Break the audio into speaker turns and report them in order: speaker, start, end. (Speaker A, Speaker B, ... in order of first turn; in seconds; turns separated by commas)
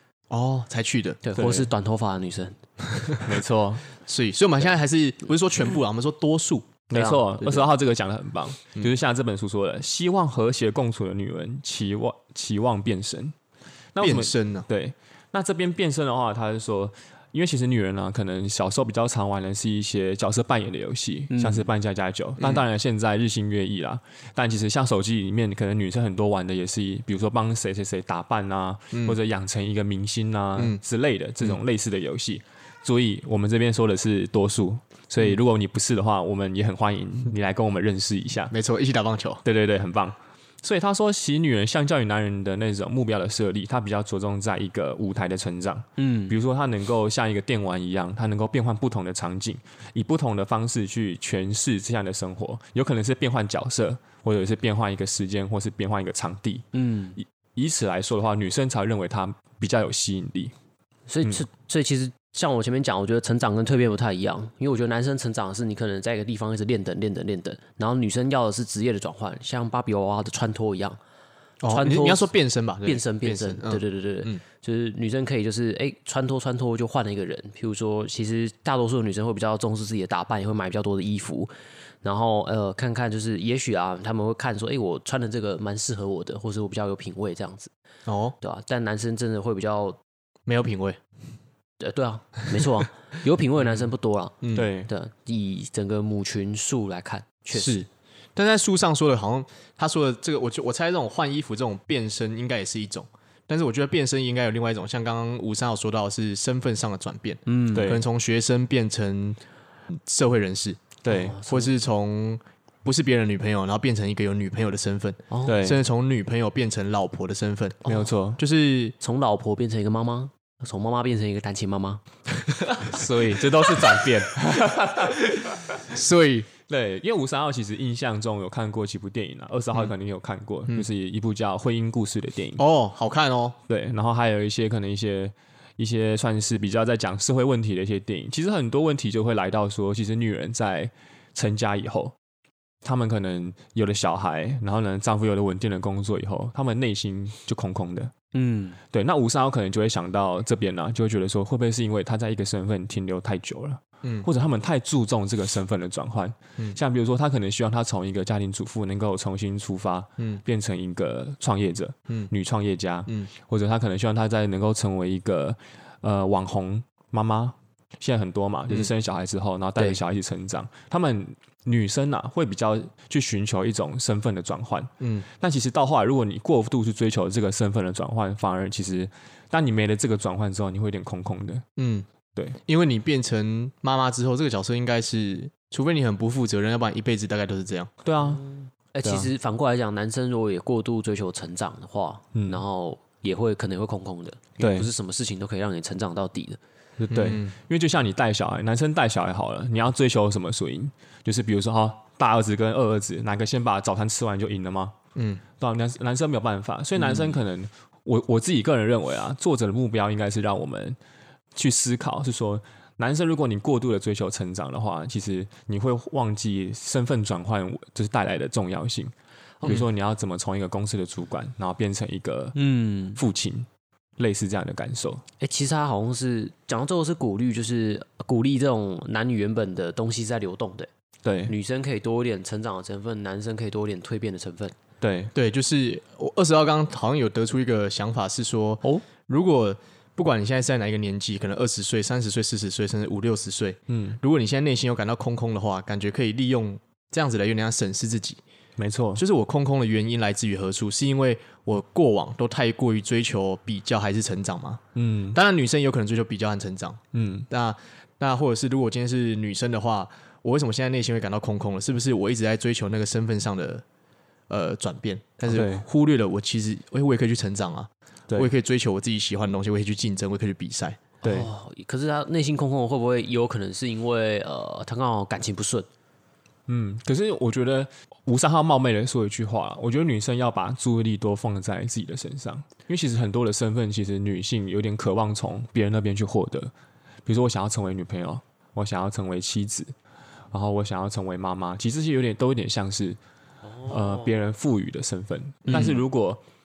Speaker A: 0.3-1.2, Speaker B: 1.2-2.6, Speaker C: 1.3-1.7, Speaker C: 3.2-3.8, Speaker A: 4.0-6.8, Speaker C: 6.9-13.3, Speaker B: 6.9-7.3, Speaker A: 7.4-7.7, Speaker C: 13.9-38.5, Speaker A: 14.0-14.7, Speaker B: 21.3-21.7, Speaker A: 28.9-29.2, Speaker A: 38.5-39.4, Speaker C: 39.4-56.6, Speaker B: 46.0-46.3, Speaker B: 56.7-57.2, Speaker C: 57.2-60.5, Speaker B: 61.1-71.0, Speaker A: 71.6-74.4, Speaker B: 71.7-72.3, Speaker B: 72.8-87.7, Speaker A: 88.0-88.3, Speaker B: 88.4-90.0, Speaker A: 90.5-91.0, Speaker B: 91.8-97.8, Speaker A: 94.4-94.7, Speaker C: 94.5-94.9, Speaker A: 97.5-109.4, Speaker B: 107.5-107.9, Speaker C: 107.7-108.0, Speaker A: 109.9-118.9, Speaker C: 111.0-111.4, Speaker B: 111.1-111.7, Speaker B: 115.3-115.6, Speaker C: 115.4-115.8, Speaker C: 117.8-118.4, Speaker B: 119.0-122.0, Speaker C: 122.8-125.8, Speaker A: 125.8-126.5, Speaker C: 126.7-132.6, Speaker A: 132.6-133.6, Speaker C: 133.7-142.1, Speaker C: 142.8-148.1, Speaker B: 148.3-148.8, Speaker C: 148.9-181.6, Speaker A: 154.0-154.3, Speaker A: 175.0-175.2, Speaker A: 181.8-182.1, Speaker A: 182.6-187.9, Speaker C: 188.0-188.4, Speaker B: 188.2-196.6, Speaker C: 189.0-189.3, Speaker C: 192.3-192.6, Speaker C: 194.6-194.9, Speaker C: 197.0-204.9, Speaker A: 197.1-197.5, Speaker A: 205.1-205.4, Speaker C: 205.6-211.0, Speaker C: 211.5-219.1, Speaker C: 219.6-222.6, Speaker B: 222.5-223.2, Speaker C: 223.1-223.7, Speaker C: 224.2-225.2, Speaker B: 225.4-230.9, Speaker C: 231.2-231.5, Speaker B: 231.4-234.7, Speaker C: 235.0-235.3, Speaker A: 235.3-248.4, Speaker C: 243.9-244.2, Speaker C: 248.8-249.2, Speaker A: 249.2-254.8, Speaker C: 254.9-255.4, Speaker A: 255.3-263.8, Speaker C: 257.1-257.5, Speaker A: 264.5-271.0, Speaker C: 265.4-265.8, Speaker C: 271.2-271.5, Speaker B: 271.2-275.9, Speaker C: 276.7-286.7, Speaker C: 287.2-289.9, Speaker C: 290.5-293.2, Speaker B: 293.8-294.3, Speaker C: 293.8-296.4, Speaker A: 295.6-295.9, Speaker B: 295.7-296.0